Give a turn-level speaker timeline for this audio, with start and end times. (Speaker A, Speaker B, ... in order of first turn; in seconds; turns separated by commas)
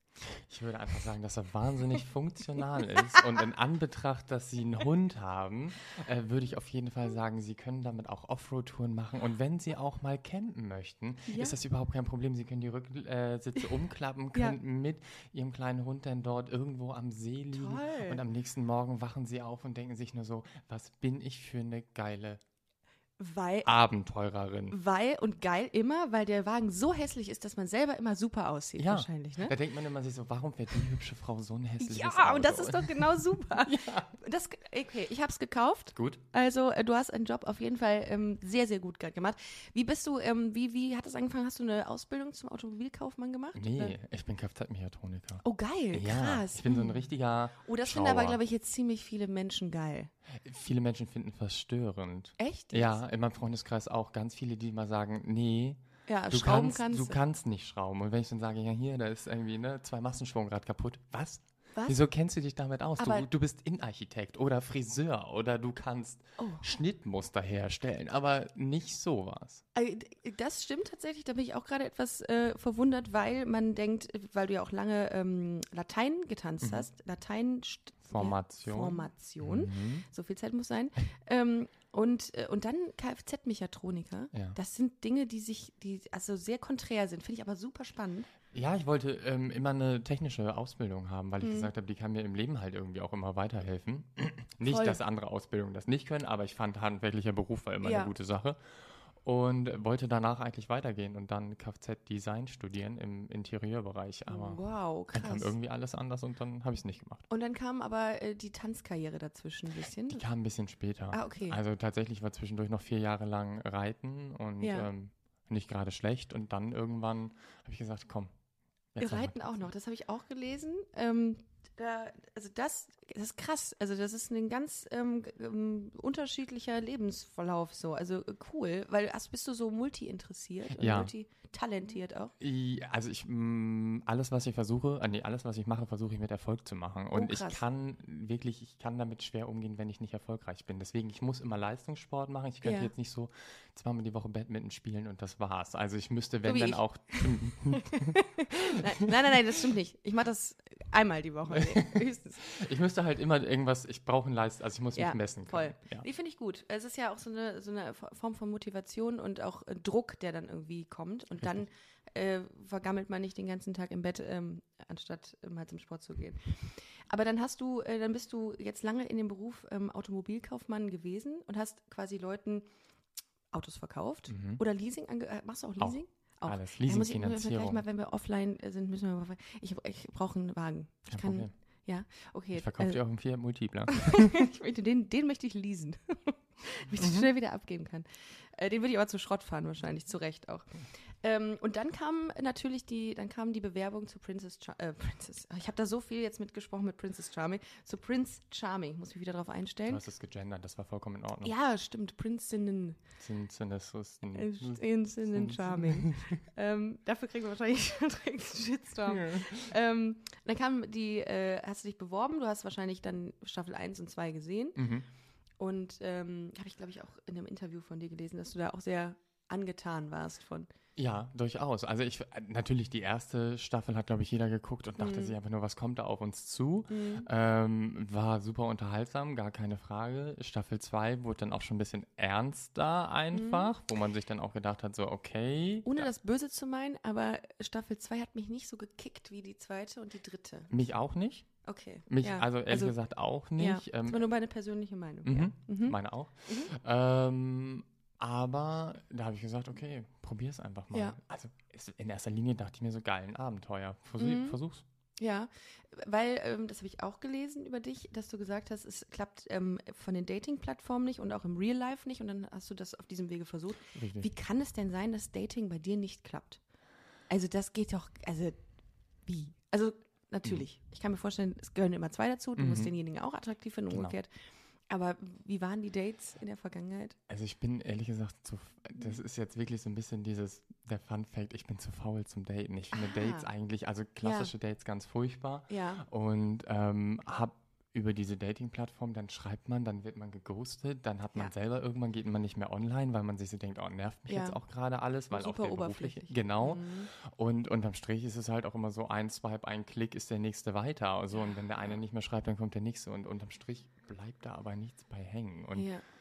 Speaker A: 0.4-22.4, Speaker B: 11.3-11.6, Speaker B: 17.5-18.2, Speaker B: 23.2-23.7, Speaker A: 23.6-24.8, Speaker B: 24.7-29.6, Speaker A: 28.8-34.2, Speaker B: 31.8-44.0, Speaker A: 35.9-36.2, Speaker A: 43.5-48.4, Speaker B: 45.4-50.1, Speaker A: 50.4-69.6, Speaker B: 52.4-53.0, Speaker B: 56.1-57.2, Speaker B: 61.7-62.1, Speaker B: 63.0-63.3, Speaker B: 66.4-66.6, Speaker B: 69.8-88.3, Speaker A: 76.6-76.9, Speaker A: 78.1-80.1, Speaker A: 88.5-104.6, Speaker B: 91.4-91.7, Speaker B: 94.6-95.0, Speaker B: 97.8-98.1, Speaker B: 104.3-105.5, Speaker A: 105.1-107.3, Speaker B: 107.3-110.2, Speaker A: 110.1-118.3, Speaker B: 111.1-111.6, Speaker B: 114.6-114.9, Speaker A: 118.9-119.7, Speaker B: 119.0-132.3, Speaker A: 130.7-131.1, Speaker A: 132.4-149.1, Speaker B: 137.1-137.6, Speaker B: 142.6-142.9, Speaker B: 146.4-152.4, Speaker A: 151.5-156.1, Speaker B: 154.9-172.7, Speaker A: 161.4-161.7, Speaker B: 173.5-183.0, Speaker A: 174.3-174.6, Speaker A: 175.8-177.8, Speaker A: 181.1-181.5, Speaker A: 182.6-184.5, Speaker B: 183.9-200.0, Speaker A: 187.0-187.3, Speaker A: 199.9-201.5, Speaker B: 201.4-203.0, Speaker A: 203.2-206.3, Speaker B: 204.3-214.8, Speaker A: 209.1-209.6, Speaker A: 214.8-215.1, Speaker B: 215.6-220.7, Speaker A: 221.0-236.1, Speaker B: 225.0-225.4, Speaker B: 226.9-227.3, Speaker B: 233.3-233.7, Speaker B: 235.8-240.7, Speaker A: 240.7-241.5, Speaker B: 241.6-243.0, Speaker A: 242.1-244.2, Speaker B: 243.6-246.7, Speaker A: 245.2-254.8, Speaker B: 250.9-251.2, Speaker B: 254.2-254.6, Speaker B: 255.2-266.6, Speaker A: 263.9-264.3, Speaker B: 267.3-268.6, Speaker B: 269.2-274.3, Speaker A: 272.6-272.9, Speaker A: 273.9-274.1, Speaker B: 274.9-277.2, Speaker A: 277.3-305.9, Speaker B: 282.9-283.5, Speaker B: 284.2-284.5, Speaker B: 285.7-286.0, Speaker B: 294.3-294.6, Speaker B: 295.3-297.1, Speaker B: 305.8-306.0